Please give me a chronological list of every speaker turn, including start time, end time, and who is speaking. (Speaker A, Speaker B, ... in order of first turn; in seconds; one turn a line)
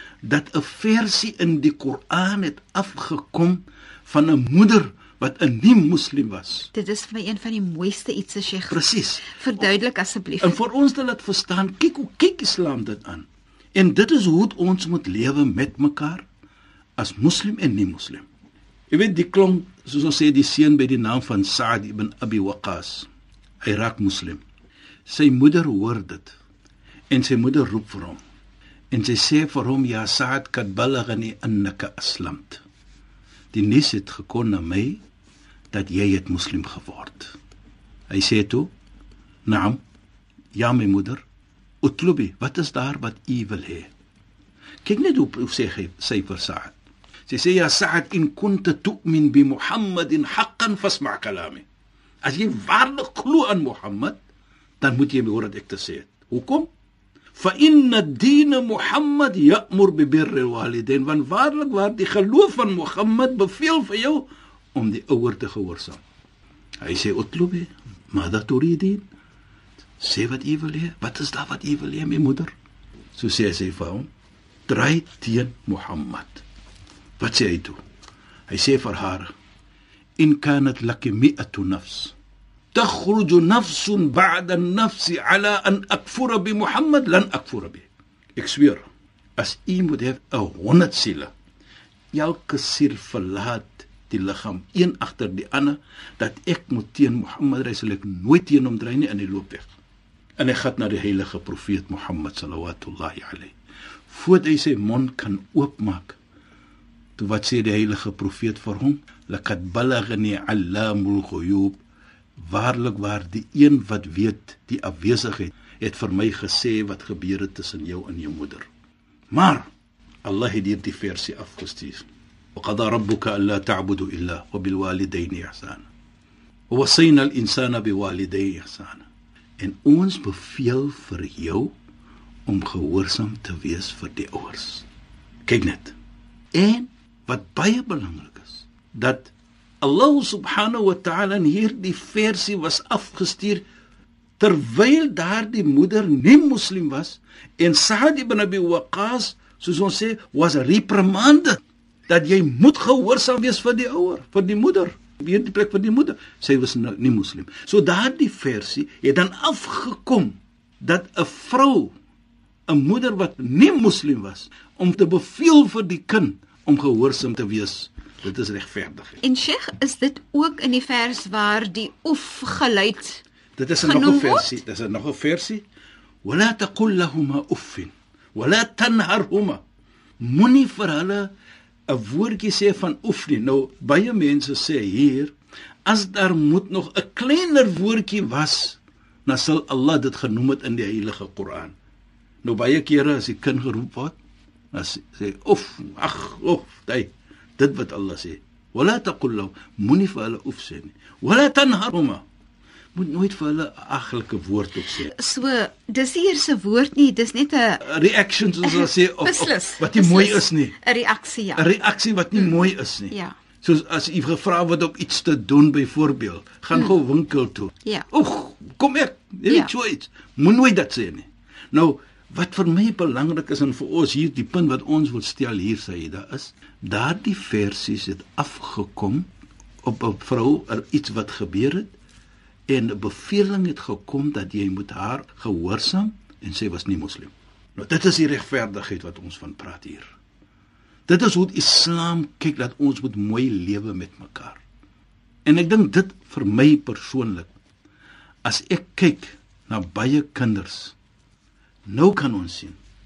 Speaker A: 0.2-6.7
Speaker B: 6.7-10.6
Speaker A: 8.7-9.4
Speaker A: 10.4-16.3
Speaker A: 17.0-18.2
Speaker A: 18.9-23.1
Speaker A: 23.6-24.4
Speaker A: 25.1-26.4
Speaker A: 27.1-28.2
Speaker A: 28.9-32.6
Speaker A: 33.5-35.0
Speaker A: 35.7-37.3
Speaker A: 38.1-38.7
Speaker A: 39.5-39.8
Speaker A: 40.5-41.2
Speaker A: 41.8-43.9
Speaker A: 44.8-46.8
Speaker A: 47.3-51.6
Speaker A: 52.2-54.2
Speaker A: 54.8-56.7
Speaker A: 57.3-66.0
Speaker A: 66.8-69.0
Speaker A: 70.0-72.5
Speaker A: 73.1-74.1
Speaker A: 74.7-76.4
Speaker A: 77.2-77.8
Speaker A: 78.5-79.3
Speaker A: 80.2-82.1
Speaker A: 82.7-88.8
Speaker A: 89.4-91.3
Speaker A: 92.1-99.7
Speaker A: 100.4-103.5
Speaker A: 104.1-106.2
Speaker A: 107.2-111.8
Speaker A: 112.4-118.7
Speaker A: 119.3-119.7
Speaker A: 120.2-125.9
Speaker A: 126.7-129.1
Speaker A: 129.6-131.7
Speaker A: 132.4-134.8
Speaker A: 135.4-135.9
Speaker A: 136.5-143.6
Speaker A: 144.4-161.9
Speaker A: 162.7-169.2
Speaker B: 169.2-173.2
Speaker A: 173.6-175.6
Speaker B: 173.8-174.6
Speaker A: 176.2-179.6
Speaker A: 180.2-181.3
Speaker A: 181.9-185.3
Speaker A: 185.8-191.7
Speaker A: 192.4-194.2
Speaker A: 194.7-202.2
Speaker A: 202.9-205.1
Speaker B: 205.0-207.8
Speaker A: 207.8-210.8
Speaker B: 208.6-211.6
Speaker A: 211.6-229.3
Speaker B: 213.1-213.3
Speaker A: 229.8-231.9
Speaker A: 232.7-240.1
Speaker A: 241.1-244.6
Speaker A: 245.4-247.5
Speaker A: 248.4-250.9
Speaker A: 251.9-252.8